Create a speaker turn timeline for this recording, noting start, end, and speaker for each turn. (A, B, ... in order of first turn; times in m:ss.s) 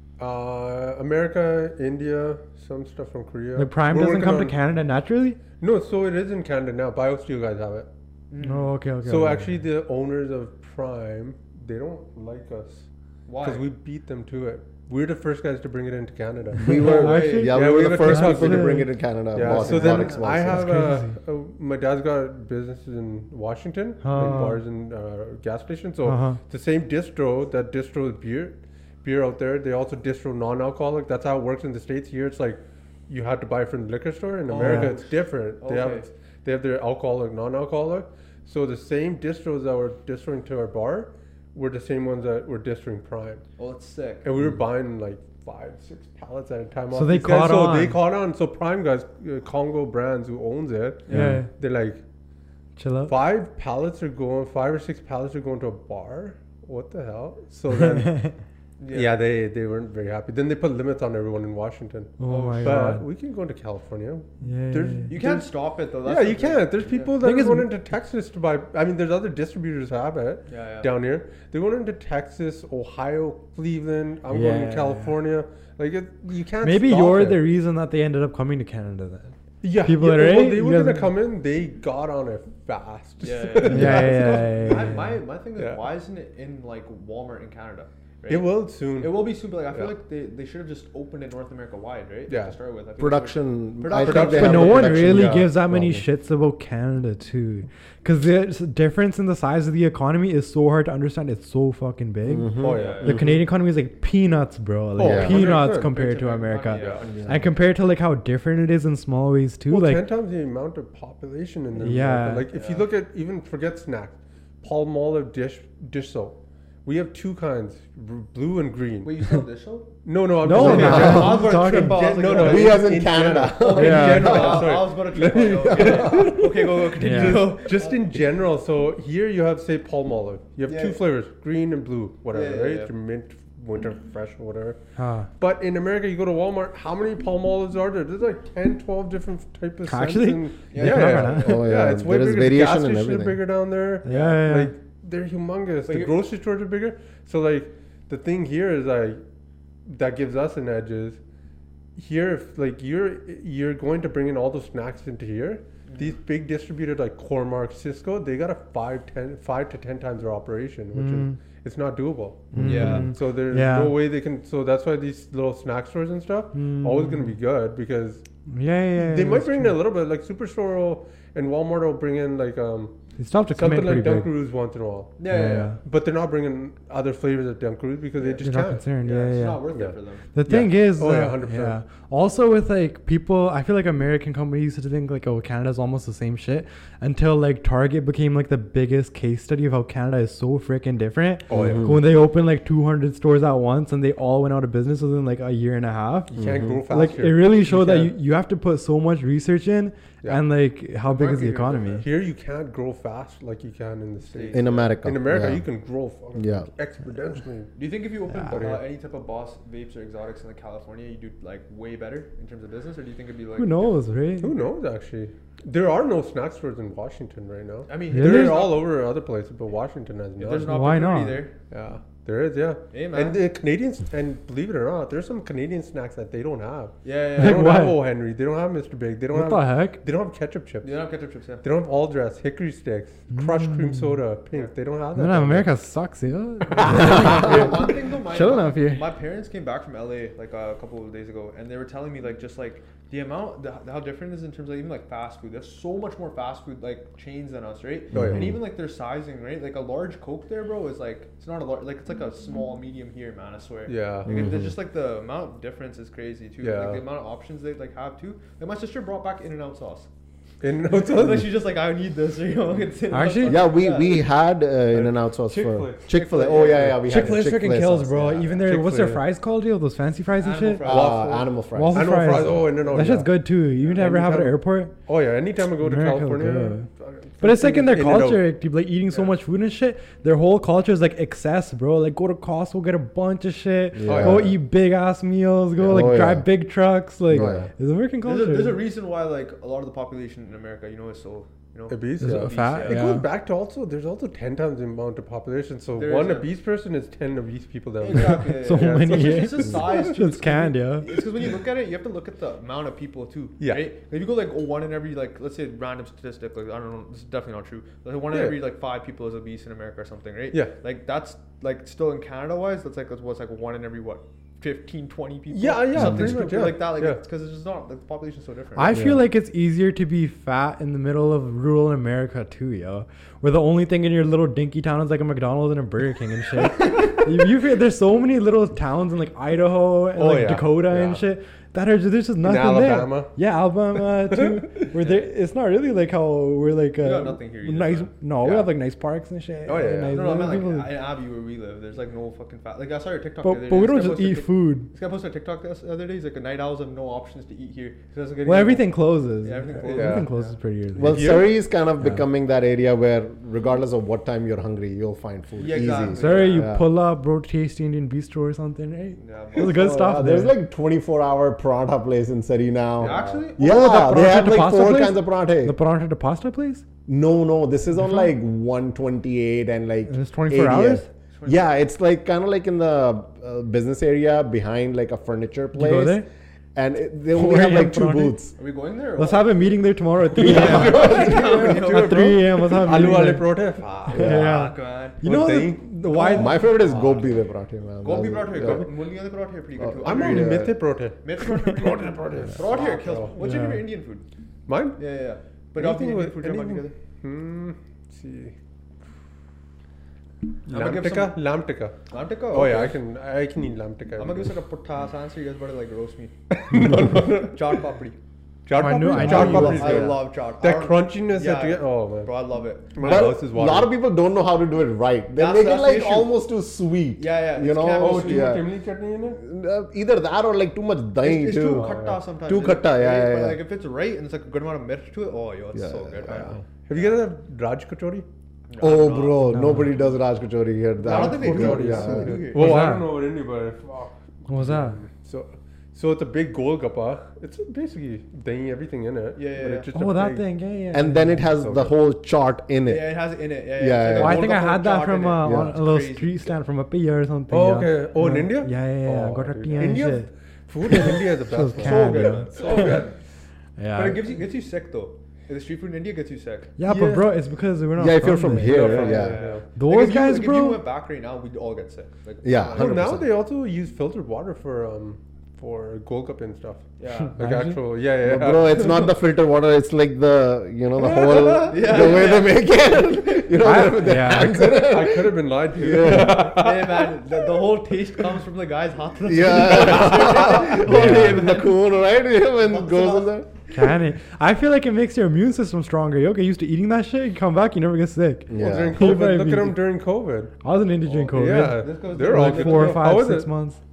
0:00.2-0:04.6 A
0:03.6-0:05.4 B
0:05.6-0:07.9 A
0:08.3-0:08.7 C
0:08.4-0:09.5 B
0:09.0-0:12.9 A
0:13.3-0:13.6 C
0:13.4-0:43.4 A
0:16.6-0:20.8 D
0:16.6-0:18.9 B
0:16.8-0:17.6 C
0:19.4-0:20.3 C
0:20.4-0:21.1 B
0:24.0-0:24.6 B
0:26.0-0:26.4 B
0:34.5-0:36.1 C
0:34.6-0:34.9 B
0:43.6-0:44.3 C
0:44.2-0:52.0 A
0:46.9-0:48.0 B
0:51.1-0:51.4 C
0:51.1-0:51.5 B
0:51.1-0:51.4 D
0:52.8-0:53.1 B
0:53.0-0:58.3 A
0:57.7-0:58.3 B
0:58.8-0:59.2 C
0:58.9-1:05.5 A
1:02.2-1:03.0 B
1:02.2-1:03.0 C
1:04.4-1:05.1 B
1:05.1-1:07.1 C
1:06.0-1:17.5 A
1:07.2-1:07.7 B
1:10.5-1:10.9 C
1:14.3-1:15.1 B
1:16.6-1:21.1 B
1:19.6-1:24.9 A
1:23.2-1:34.8 C
1:23.6-1:25.1 B
1:25.6-1:25.9 A
1:28.3-1:29.9 A
1:32.3-1:32.6 A
1:33.0-1:36.0 D
1:34.0-1:35.4 A
1:34.2-1:50.1 B
1:42.2-1:43.3 D
1:42.5-1:43.4 A
1:42.7-1:43.2 C
1:45.0-1:45.9 A
1:45.0-1:45.4 D
1:45.3-1:47.2 C
1:46.7-1:47.0 A
1:47.0-1:47.5 D
1:49.7-1:59.1 A
1:51.8-1:52.4 B
1:52.5-1:52.9 C
1:59.0-2:08.0 C
2:00.0-2:14.8 A
2:00.4-2:02.3 B
2:00.6-2:01.5 D
2:02.3-2:04.2 D
2:03.7-2:04.7 B
2:05.8-2:06.3 D
2:07.0-2:07.6 B
2:10.7-2:11.0 C
2:12.3-2:12.9 C
2:15.0-2:15.3 B
2:15.4-2:29.2 A
2:19.8-2:21.6 B
2:20.7-2:21.6 C
2:21.3-2:23.4 D
2:24.0-2:24.7 B
2:24.0-2:24.4 C
2:25.8-2:26.2 C
2:29.8-2:31.2 A
2:32.0-2:48.2 A
2:35.8-2:36.1 C
2:40.9-2:41.4 B
2:42.5-2:43.0 D
2:42.5-2:44.0 B
2:42.6-2:43.1 C
2:46.5-2:47.3 B
2:48.5-2:49.8 B
2:49.0-2:53.0 A
2:53.2-2:54.3 B
2:53.5-2:55.2 A
2:55.2-2:55.8 C
2:55.2-2:55.8 B
2:55.8-2:58.8 A
2:58.2-2:58.4 C
2:58.4-2:59.7 B
2:59.0-3:00.2 C
3:00.3-3:22.1 B
3:00.4-3:01.8 A
3:11.5-3:12.0 A
3:11.5-3:12.0 D
3:16.3-3:18.1 A
3:16.4-3:16.8 D
3:21.0-3:22.1 C
3:22.0-3:27.7 A
3:24.2-3:24.9 C
3:24.5-3:25.6 D
3:26.4-3:26.7 D
3:27.8-3:34.0 C
3:28.5-3:28.8 A
3:33.6-3:34.6 B
3:34.4-3:40.7 A
3:37.9-3:38.8 C
3:38.1-3:38.7 B
3:40.4-3:41.5 C
3:40.6-3:41.4 B
3:41.7-3:51.0 A
3:42.9-3:43.4 C
3:47.0-3:47.8 C
3:47.4-3:48.0 B
3:49.3-3:50.0 B
3:50.8-3:51.6 C
3:51.6-3:55.7 A
3:53.3-3:54.2 B
3:55.1-3:59.0 B
3:56.7-3:57.7 A
3:56.8-4:20.1 C
4:08.1-4:08.6 A
4:08.1-4:08.6 D
4:13.9-4:14.4 A
4:14.2-4:14.7 D
4:16.6-4:17.0 A
4:20.6-4:21.6 A
4:20.9-4:24.2 C
4:23.1-4:23.7 B
4:23.4-4:28.7 D
4:24.9-4:27.5 A
4:26.1-4:27.0 C
4:27.0-4:30.9 B
4:28.6-4:29.2 A
4:30.4-4:31.3 C
4:30.8-4:38.5 A
4:30.8-4:32.4 D
4:31.7-4:34.9 B
4:35.7-4:36.8 B
4:37.4-4:48.8 B
4:43.9-4:44.6 D
4:44.0-4:44.5 A
4:45.8-4:46.5 D
4:47.3-4:47.7 D
4:47.3-4:47.7 A
4:48.2-4:53.1 C
4:51.9-4:59.5 A
4:52.2-4:53.3 B
4:56.0-4:56.5 C
4:58.0-5:19.0 C
4:58.1-5:01.1 B
5:03.6-5:03.9 A
5:08.3-5:08.6 A
5:15.5-5:17.2 A
5:15.9-5:16.4 D
5:18.8-5:40.9 B
5:18.9-5:19.3 D
5:30.1-5:31.2 A
5:32.4-5:33.3 A
5:34.3-5:34.8 A
5:35.0-5:35.3 C
5:37.0-5:38.7 C
5:39.6-5:40.4 A
5:40.1-5:50.6 C
5:43.4-5:44.9 B
5:48.4-5:51.4 B
5:49.9-5:50.3 A
5:51.0-5:56.9 D
5:51.0-5:51.5 A
5:55.6-5:56.7 C
5:56.1-6:00.6 B
5:59.2-6:00.2 C
5:59.6-6:05.8 D
6:03.0-6:03.9 C
6:03.0-6:03.4 A
6:03.6-6:06.8 B
6:07.1-6:18.5 D
6:08.0-6:08.3 B
6:10.1-6:11.0 B
6:11.3-6:11.7 C
6:15.7-6:16.3 B
6:17.3-6:18.4 B
6:18.6-6:19.8 C
6:19.2-6:26.8 B
6:20.3-6:22.4 C
6:20.4-6:24.3 A
6:24.1-6:24.6 D
6:24.2-6:25.2 C
6:25.2-6:27.3 A
6:26.1-6:26.6 C
6:26.3-6:28.9 D
6:28.0-6:30.7 C
6:29.8-6:30.7 D
6:30.0-6:33.4 A
6:31.2-6:34.2 C
6:33.4-6:33.9 B
6:34.7-6:35.0 A
6:35.0-6:36.9 C
6:35.8-6:38.5 A
6:40.7-6:41.4 C
6:40.7-6:42.0 A
6:42.1-6:43.0 C
6:42.5-6:44.5 A
6:44.2-6:46.3 C
6:46.5-6:47.8 A
6:47.2-6:48.2 C
6:48.6-6:52.3 A
6:48.8-6:50.2 B
6:49.1-6:49.9 D
6:49.2-6:53.4 C
6:52.9-6:54.0 A
6:53.0-6:58.7 D
6:55.3-6:56.4 C
6:57.2-6:58.6 C
6:58.0-6:59.4 A
6:59.3-7:01.9 D
7:01.2-7:07.2 C
7:01.6-7:02.2 A
7:02.5-7:03.6 D
7:05.7-7:06.6 D
7:06.8-7:08.2 A
7:08.7-7:09.5 C
7:08.8-7:12.4 D
7:09.4-7:09.9 B
7:11.0-7:12.8 C
7:11.1-7:20.4 A
7:12.5-7:13.1 B
7:14.5-7:15.0 B
7:19.4-7:19.9 C
7:19.9-7:21.4 B
7:20.9-7:23.2 D
7:21.4-7:21.9 A
7:22.8-7:26.5 C
7:23.8-7:24.5 D
7:24.2-7:30.3 B
7:25.4-7:25.8 D
7:27.5-7:33.1 A
7:30.8-7:32.9 B
7:31.7-7:33.2 C
7:33.8-7:34.2 B
7:33.9-7:36.8 C
7:36.8-7:38.9 B
7:36.8-7:37.2 A
7:38.0-7:39.4 D
7:38.6-7:39.6 A
7:38.7-7:43.1 C
7:39.8-7:40.8 B
7:42.4-7:43.3 D
7:42.7-7:46.8 A
7:47.0-7:47.4 C
7:47.4-7:47.8 B
7:47.4-7:48.9 A
7:48.2-7:56.6 D
7:51.0-7:53.4 C
7:53.6-7:54.7 B
7:54.3-7:57.1 A
7:56.4-8:01.8 C
7:59.2-8:03.5 D
8:00.7-8:01.5 B
8:02.6-8:03.4 C
8:03.7-8:09.8 B
8:08.5-8:09.2 D
8:08.5-8:10.5 A
8:10.6-8:13.8 B
8:11.1-8:13.5 A
8:11.5-8:13.1 C